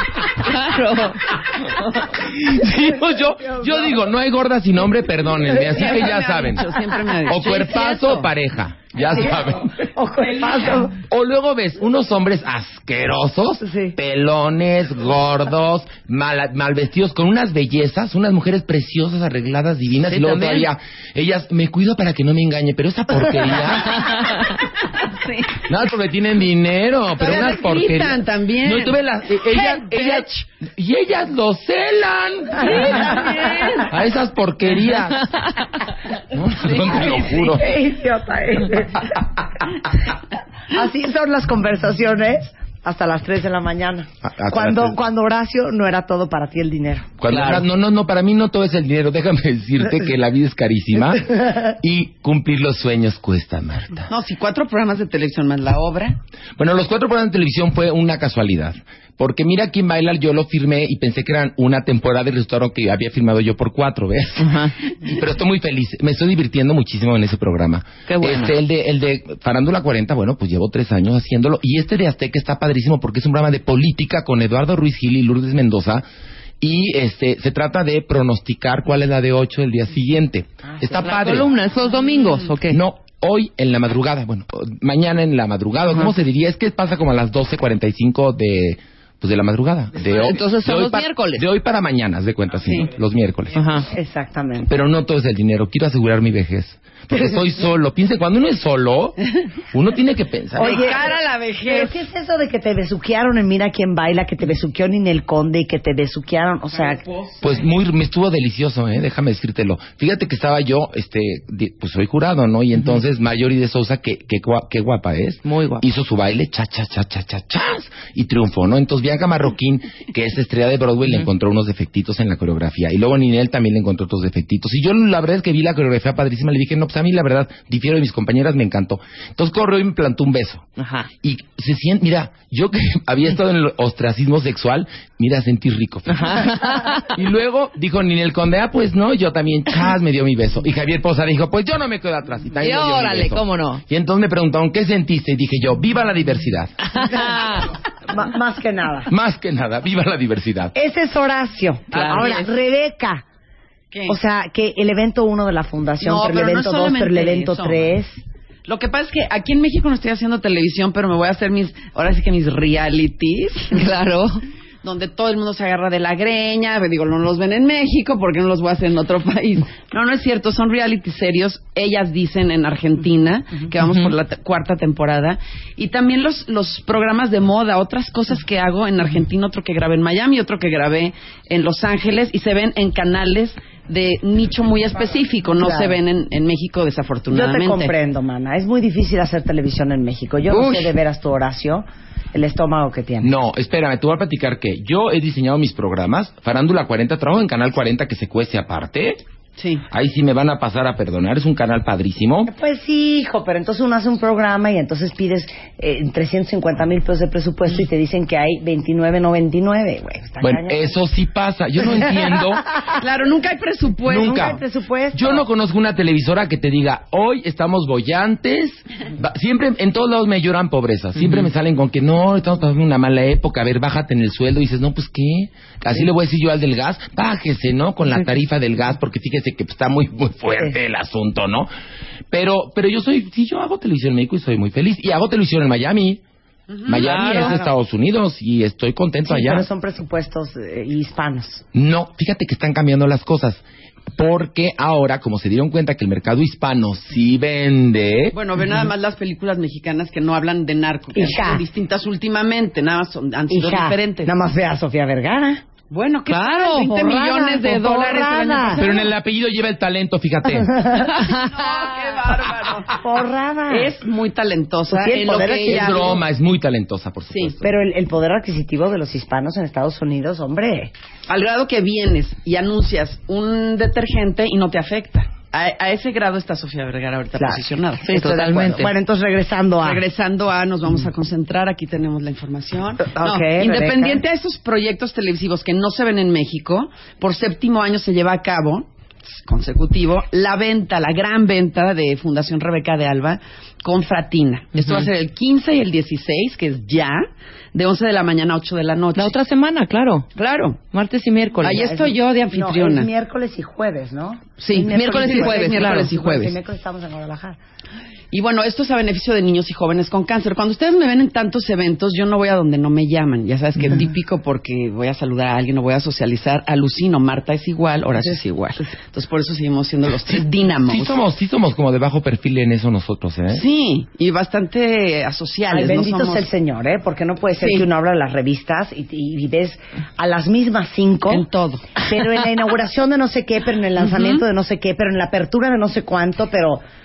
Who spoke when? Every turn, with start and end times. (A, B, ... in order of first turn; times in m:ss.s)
0:00.3-0:02.1 A
0:02.1-0:06.7 B
0:03.6-0:03.8 C
0:05.7-0:08.3 D
0:07.3-0:09.9 B
0:09.1-0:11.0 C
0:10.9-0:24.2 B
0:13.6-0:14.0 C
0:20.1-0:20.7 A
0:24.0-0:24.4 A
0:25.0-0:25.6 D
0:25.6-0:35.3 B
0:27.2-0:30.4 D
0:32.7-0:33.9 D
0:36.3-0:37.7 B
0:37.0-0:39.2 C
0:40.7-0:47.1 C
0:44.2-0:45.0 B
0:47.2-0:54.1 B
0:47.3-0:47.6 A
0:54.1-0:56.2 D
0:56.6-1:16.0 B
1:04.4-1:04.8 A
1:08.1-1:08.6 A
1:16.6-1:21.5 B
1:20.7-1:21.4 C
1:21.0-1:22.8 A
1:22.7-1:33.7 B
1:30.1-1:31.4 A
1:33.6-1:33.9 A
1:33.9-1:34.7 C
1:34.7-1:39.2 B
1:39.7-1:41.0 B
1:40.6-1:41.0 C
1:40.6-1:42.0 D
1:41.7-1:47.0 C
1:47.4-2:10.7 B
1:55.4-1:55.8 A
2:10.8-2:11.1 A
2:11.2-2:26.7 B
2:16.1-2:17.0 A
2:22.6-2:23.8 A
2:27.0-2:27.7 A
2:28.1-2:29.1 C
2:29.1-2:30.7 B
2:30.8-2:33.2 C
2:31.9-2:32.5 A
2:31.9-2:32.4 D
2:34.1-2:38.2 C
2:36.0-2:37.9 D
2:38.7-2:43.8 D
2:43.8-2:44.4 A
2:44.8-3:07.9 D
2:53.8-2:54.1 A
3:05.6-3:06.0 C
3:07.3-3:13.3 C
3:10.5-3:10.9 D
3:13.2-3:19.2 B
3:19.6-3:19.8 D
3:19.9-3:22.5 B
3:22.5-3:31.0 C
3:30.4-3:32.7 B
3:32.9-3:34.6 D
3:34.1-3:34.6 B
3:34.1-3:35.4 C
3:35.1-3:51.7 B
3:41.2-3:41.5 A
3:52.3-3:56.2 B
3:56.7-3:57.7 D
3:56.9-3:59.7 B
3:57.0-3:57.6 A
3:59.3-4:01.6 C
4:01.7-4:03.6 B
4:04.2-4:08.4 B
4:08.3-4:14.3 D
4:11.2-4:11.6 C
4:13.5-4:15.6 C
4:15.9-4:19.1 D
4:16.3-4:17.7 A
4:17.4-4:18.8 C
4:18.8-4:20.9 B
4:20.7-4:21.0 C
4:21.0-4:21.6 A
4:21.2-4:23.0 D
4:23.0-4:24.0 C
4:23.7-4:26.2 D
4:24.9-4:26.2 C
4:25.6-4:27.7 B
4:27.3-4:27.6 D
4:27.6-4:30.9 C
4:31.3-4:38.8 D
4:37.4-4:40.0 C
4:38.0-4:38.9 A
4:39.8-4:48.9 D
4:43.0-4:44.2 C
4:49.4-4:59.3 D
4:54.8-4:55.1 A
4:59.2-5:00.3 A
5:00.4-5:00.8 D
5:00.9-5:01.8 A
5:01.6-5:03.1 D
5:01.7-5:07.6 C
5:04.6-5:06.1 A
5:04.7-5:06.6 D
5:08.3-5:21.2 D
5:20.9-5:23.6 B
5:23.5-5:26.5 D
5:25.7-5:31.4 C
5:27.6-5:27.9 D
5:31.3-5:32.1 D
5:32.0-5:36.8 C
5:34.0-5:34.4 D